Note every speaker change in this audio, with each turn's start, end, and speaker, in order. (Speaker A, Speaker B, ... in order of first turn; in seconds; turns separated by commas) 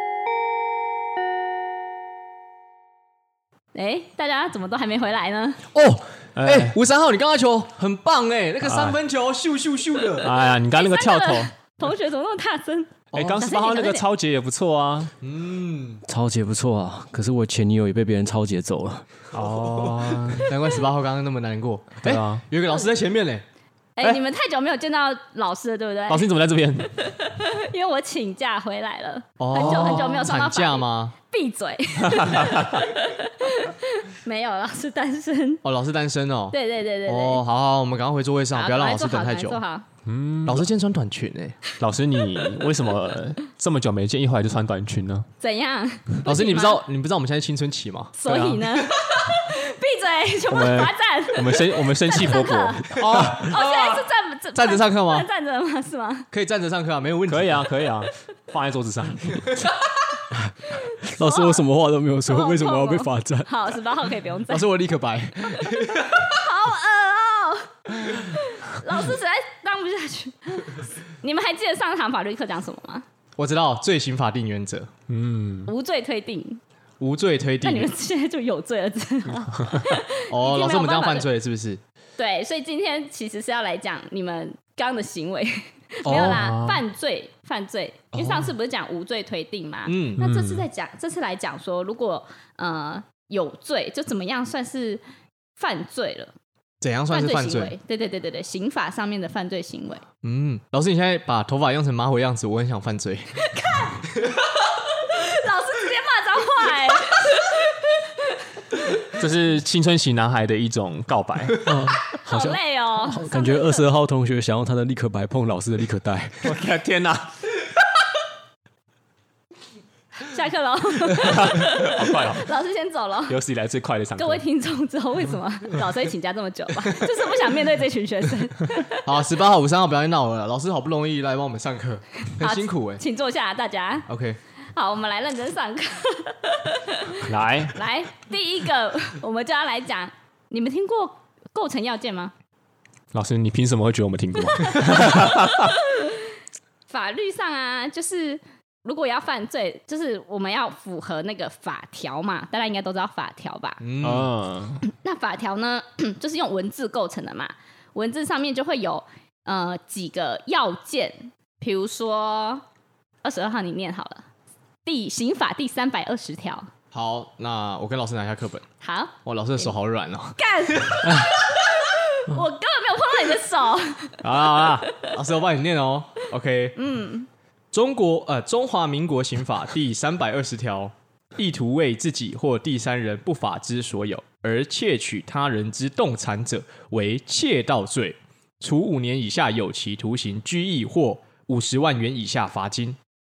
Speaker A: 3.7-5.6, Speaker B: 5.7-10.3, Speaker C: 6.4-6.8, Speaker C: 8.6-9.0, Speaker C: 10.2-11.5, Speaker A: 10.7-14.0, Speaker B: 13.1-13.4, Speaker C: 13.1-15.1, Speaker B: 15.2-16.0, Speaker D: 16.1-19.1, Speaker C: 19.3-20.5, Speaker B: 19.4-23.4, Speaker C: 22.0-22.4, Speaker A: 24.0-35.6, Speaker C: 26.1-26.9, Speaker B: 29.4-31.1, Speaker C: 32.1-32.8, Speaker B: 35.6-39.6, Speaker A: 36.5-37.4, Speaker A: 38.5-39.9, Speaker C: 40.0-40.7, Speaker B: 40.5-41.6, Speaker C: 41.8-45.3, Speaker A: 42.4-42.7, Speaker A: 45.4-46.8, Speaker B: 46.2-48.2, Speaker A: 48.2-56.3, Speaker C: 48.3-48.9, Speaker C: 50.5-54.0, Speaker B: 53.0-53.6, Speaker B: 54.5-55.3, Speaker B: 56.3-57.7, Speaker C: 57.3-59.7, Speaker D: 60.3-63.8, Speaker A: 60.6-61.6, Speaker A: 62.3-64.7, Speaker B: 64.5-66.4, Speaker A: 66.0-73.0, Speaker B: 73.4-74.9, Speaker C: 75.1-75.7, Speaker A: 75.7-76.6, Speaker B: 77.0-77.9, Speaker A: 77.6-81.3, Speaker C: 79.6-80.0, Speaker B: 80.3-81.8, Speaker A: 82.2-95.0, Speaker C: 86.0-86.8, Speaker B: 86.1-86.4, Speaker B: 88.1-88.5, Speaker B: 89.9-90.2, Speaker C: 90.2-90.7, Speaker A: 95.6-96.3, Speaker B: 96.8-97.7, Speaker A: 97.1-100.0, Speaker B: 100.2-103.4, Speaker A: 103.4-104.3, Speaker A: 104.9-108.4, Speaker C: 109.0-111.8, Speaker D: 111.6-116.6, Speaker A: 112.1-113.9, Speaker C: 116.4-117.6, Speaker A: 120.2-123.4, Speaker C: 121.2-122.5, Speaker C: 123.3-124.4, Speaker A: 124.2-129.1, Speaker B: 129.0-133.0, Speaker A: 132.2-134.1, Speaker B: 134.1-134.4, Speaker A: 134.6-142.3, Speaker C: 137.2-137.8, Speaker C: 143.1-145.8, Speaker A: 144.4-146.3, Speaker A: 146.9-153.8, Speaker B: 153.8-154.3, Speaker C: 154.0-154.8, Speaker A: 154.8-162.6, Speaker A: 163.2-164.2, Speaker A: 164.8-166.7, Speaker B: 166.9-168.7, Speaker A: 168.8-169.7, Speaker B: 169.2-171.3, Speaker A: 170.4-175.1, Speaker D: 171.0-171.3, Speaker B: 174.2-176.8, Speaker A: 176.8-177.3, Speaker B: 177.7-193.0